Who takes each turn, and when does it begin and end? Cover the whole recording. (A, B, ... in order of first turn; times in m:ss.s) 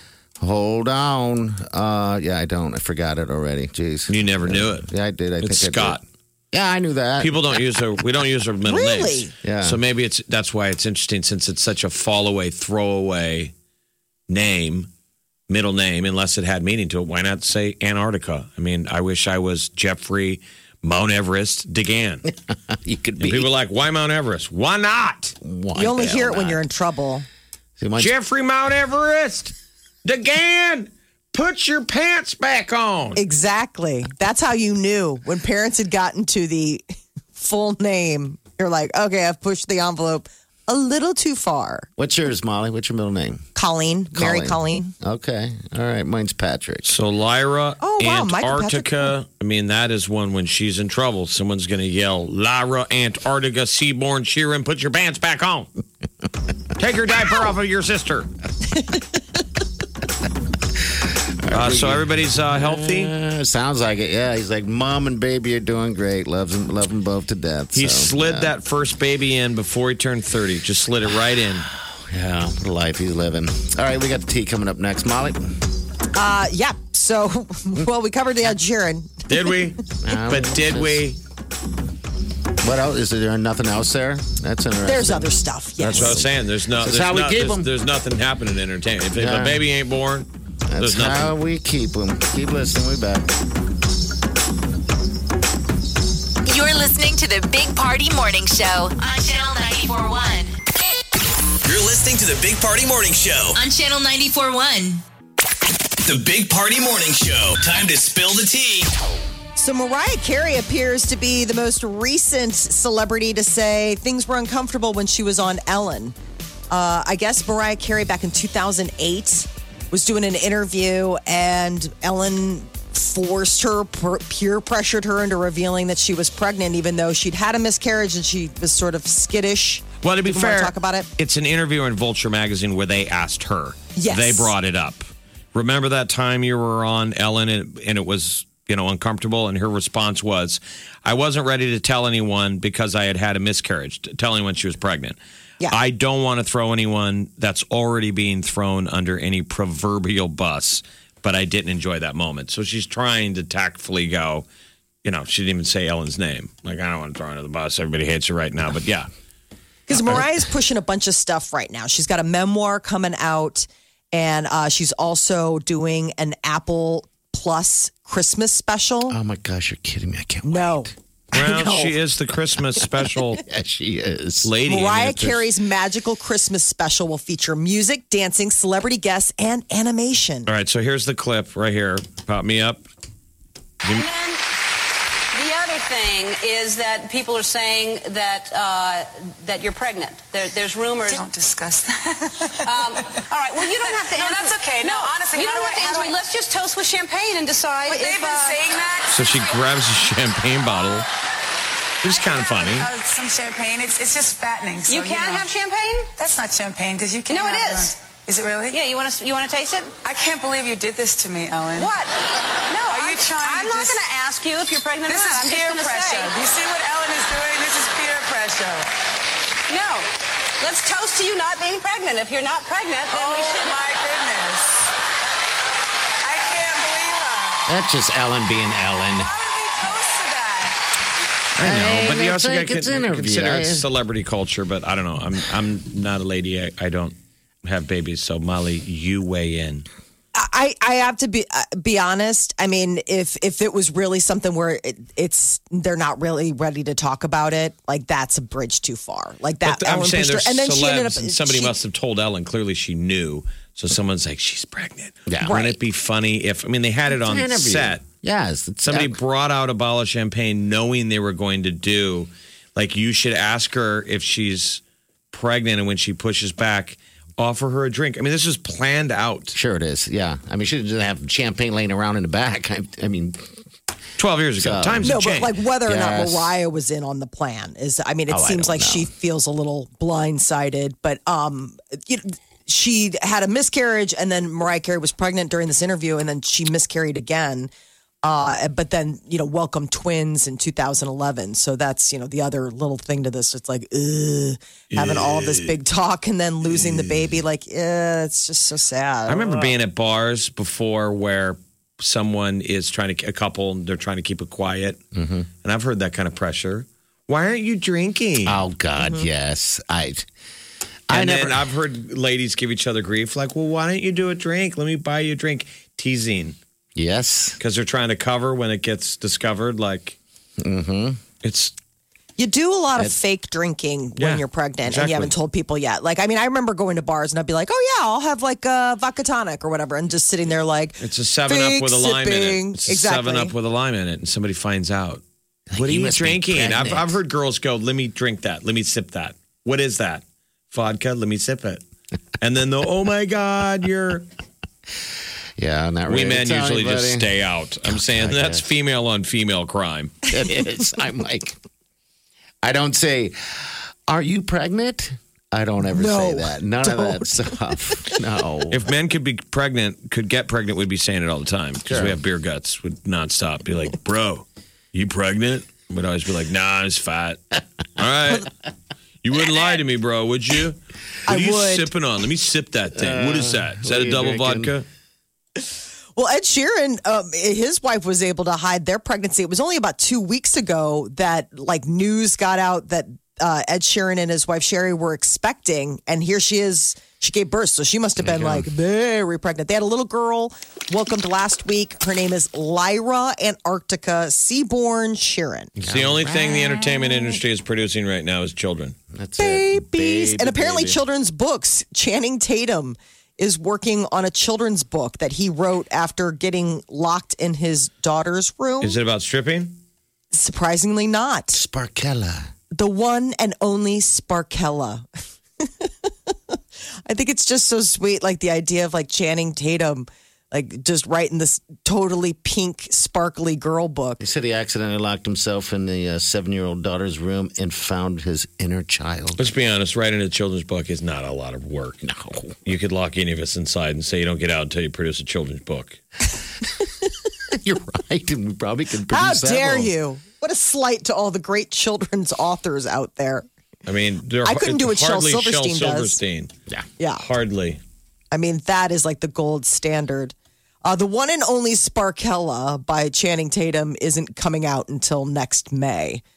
0:00.4-0:07.6 A
0:04.1-0:04.8 B
0:05.4-0:06.0 B
0:07.2-0:13.5 B
0:08.7-0:09.3 C
0:09.4-0:09.8 A
0:14.3-0:14.9 B
0:15.5-0:22.2 B
0:22.5-0:23.5 A
0:23.2-0:25.4 B
0:25.4-0:26.6 A
0:25.8-0:27.2 C
0:27.8-0:28.1 A
0:28.0-0:29.5 B
0:30.0-0:33.2 B
0:33.2-0:36.8 C
0:37.3-0:41.9 C
0:42.0-0:43.5 A
0:43.6-0:44.9 C
0:44.1-0:47.0 A
0:46.8-0:55.7 B
0:47.8-0:49.1 C
0:56.8-0:58.3 B
1:01.4-1:08.5 A
1:01.5-1:03.1 B
1:07.7-1:11.7 B
1:11.8-1:15.5 A
1:16.1-1:19.3 C
1:19.3-1:21.2 B
1:20.0-1:21.1 A
1:22.6-1:27.7 A
1:24.8-1:26.2 C
1:25.9-1:31.3 B
1:29.2-1:29.6 A
1:30.7-1:33.3 A
1:36.4-1:40.5 D
1:41.6-1:43.6 E
1:43.5-1:45.0 D
1:46.0-1:48.9 E
1:49.6-1:56.2 C
1:56.7-2:11.1 C
2:10.0-2:25.2 B
2:14.0-2:14.5 C
2:25.7-2:34.4 B
2:35.0-2:39.1 B
2:39.9-2:49.2 C
2:49.1-2:50.9 A
2:50.4-2:51.9 C
2:51.3-2:53.4 B
2:53.3-2:54.5 A
2:54.4-2:55.4 B
2:54.7-3:00.5 C
3:00.5-3:02.8 B
3:03.9-3:04.4 F
3:05.3-3:11.3 F
3:11.0-3:16.2 G
3:12.6-3:18.8 F
3:17.8-3:19.5 G
3:19.1-3:21.0 B
3:22.0-3:22.9 B
3:22.1-3:25.5 G
3:24.9-3:26.1 F
3:26.2-3:28.8 G
3:27.3-3:27.9 F
3:28.7-3:29.9 F
3:30.0-3:32.1 G
3:31.7-3:32.1 F
3:32.7-3:36.3 F
3:32.9-3:34.0 G
3:35.0-3:38.9 G
3:39.7-3:40.1 F
3:40.6-3:43.8 F
3:43.1-3:44.9 G
3:46.2-3:47.7 G
3:47.7-3:49.3 A
3:49.2-3:50.8 G
3:51.6-3:59.8 B
3:51.6-3:53.9 A
4:00.3-4:11.7 C
4:09.6-4:18.0 B
4:15.3-4:15.6 A
4:15.4-4:15.8 C
4:17.1-4:19.2 A
4:18.8-4:24.8 B
4:25.3-4:29.6 B
4:29.5-4:33.4 A
4:34.2-4:35.5 B
4:34.6-4:35.2 A
4:35.0-4:47.7 C
4:35.8-4:36.5 A
4:38.3-4:39.1 A
4:48.2-4:59.8 C
4:54.9-4:55.7 B
4:59.3-5:05.0 B
5:05.1-5:05.5 A
5:05.6-5:08.6 B
5:08.4-5:10.3 A
5:11.1-5:11.6 A
5:11.1-5:16.6 B
5:16.9-5:17.6 A
5:17.6-5:20.2 B
5:20.6-5:21.2 A
5:21.4-5:21.7 B
5:22.4-5:33.5 C
5:24.2-5:25.4 B
5:31.0-5:35.2 B
5:35.7-5:37.2 A
5:35.8-5:41.8 B
5:42.4-5:44.3 B
5:45.6-5:47.3 A
5:46.1-5:50.2 B
5:47.8-5:48.7 A
5:50.3-5:51.6 A
5:52.6-5:58.9 A
5:55.9-5:57.5 C
5:58.7-6:07.4 B
6:01.8-6:02.2 A
6:08.0-6:08.5 B
6:09.2-6:14.8 B
6:11.3-6:11.9 C
6:12.9-6:14.7 A
6:16.2-6:35.7 C
6:28.3-6:28.6 A
6:35.8-6:39.0 B
6:35.8-6:37.1 A
6:39.1-6:41.0 A
6:39.4-6:49.0 C
6:48.8-6:49.8 B
6:50.3-6:51.6 C
6:51.5-6:52.5 A
6:52.7-6:55.0 C
6:55.6-6:56.3 C
6:57.0-7:04.2 C
7:04.2-7:09.4 A
7:09.4-7:12.0 B
7:12.0-7:12.5 A
7:12.6-7:16.0 B
7:17.5-7:19.9 A
7:19.1-7:23.4 C
7:23.8-7:26.5 B
7:24.4-7:26.2 C
7:27.2-7:27.8 B
7:28.3-7:36.2 C